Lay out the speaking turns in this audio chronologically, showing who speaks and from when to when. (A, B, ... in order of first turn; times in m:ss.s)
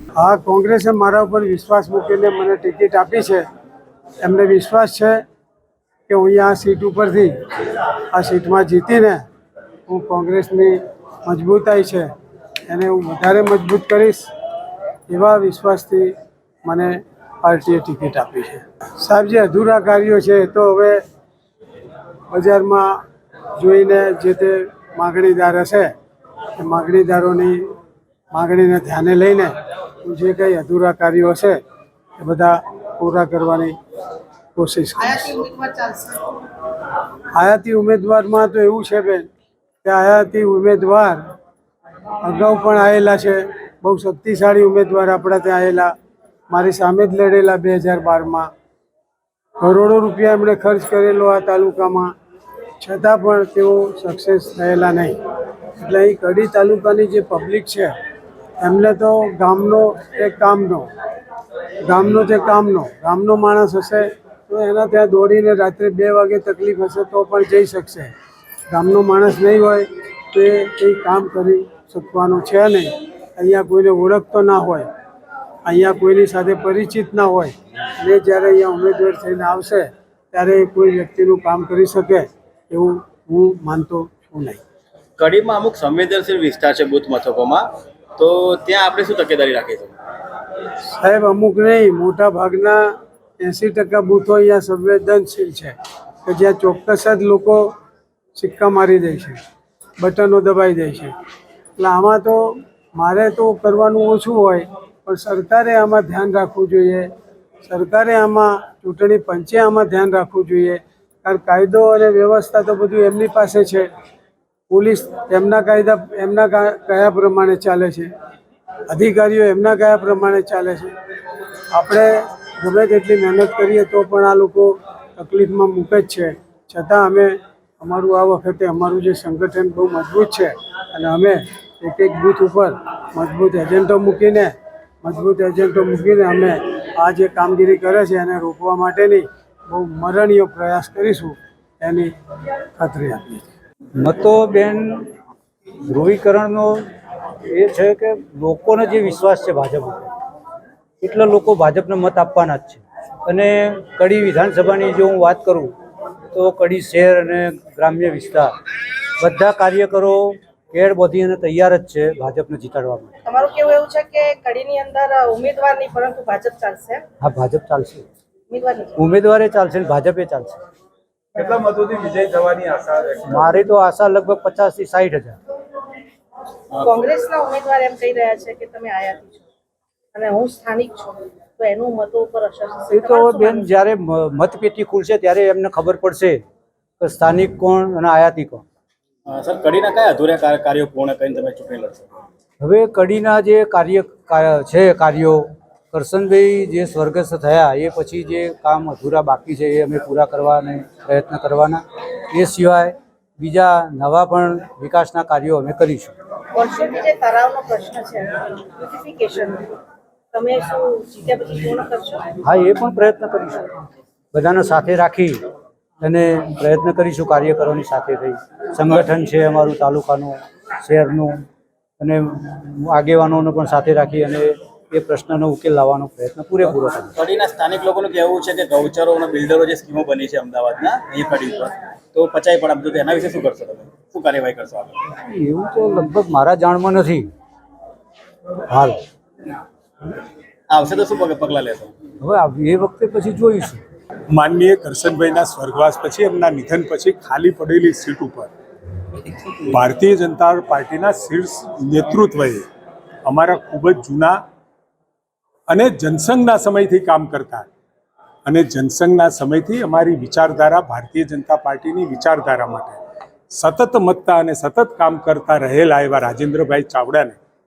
0:00.2-0:03.4 A
0:04.2-0:05.2 A
0:06.1-0:07.3 A
0:08.1-0:09.2 A
0:09.9-0:12.1 A
0:12.7-0:14.3 A
0:15.1-0:16.1 A
0:16.6-0:21.0 A
0:22.3-0:23.0 A
0:23.6-0:25.9 A
0:26.6-0:27.6 A
0:28.3-0:31.6 A
0:32.2-0:33.7 A
0:34.6-0:35.3 A
0:35.3-0:36.2 B
0:37.3-0:39.3 A
0:39.8-0:41.2 A
0:42.2-0:45.9 A
0:46.5-0:48.5 A
0:49.6-0:52.1 A
0:52.8-0:55.2 A
0:55.8-0:57.9 A
0:58.6-1:00.9 A
1:01.8-1:08.1 A
1:08.7-1:14.9 A
1:15.7-1:24.6 A
1:25.2-1:29.9 C
1:31.0-1:32.9 A
1:33.4-1:37.7 A
1:38.3-1:39.4 A
1:40.0-1:41.1 A
1:41.8-1:47.1 A
1:47.6-1:53.9 A
1:54.7-1:58.1 A
1:58.9-2:00.9 A
2:01.7-2:22.1 A
2:22.8-2:23.5 A
2:24.0-2:25.1 D
2:25.8-2:26.8 D
2:27.5-2:30.1 D
2:31.0-2:35.7 D
2:36.3-2:38.5 D
2:39.2-2:43.2 D
2:43.2-2:47.0 B
2:47.2-2:48.1 D
2:48.5-2:49.0 B
2:49.0-2:50.6 D
2:51.3-2:51.6 B
2:51.4-2:53.2 C
2:53.2-2:55.4 D
2:56.8-2:59.5 B
3:00.1-3:03.7 B
3:02.9-3:06.4 D
3:07.0-3:08.6 D
3:09.3-3:12.1 C
3:12.6-3:26.1 D
3:26.5-3:29.8 B
3:30.3-3:32.3 B
3:32.4-3:33.7 D
3:34.3-3:35.4 D
3:36.0-3:41.4 D
3:42.0-3:47.1 D
3:47.1-3:55.0 C
3:55.2-3:57.3 D
3:58.7-3:59.0 D
4:00.7-4:01.9 C
4:02.2-4:03.8 D
4:04.3-4:08.5 E
4:09.5-4:12.6 E
4:13.2-4:14.4 E
4:15.7-4:17.7 E
4:18.4-4:23.0 E
4:23.5-4:27.4 E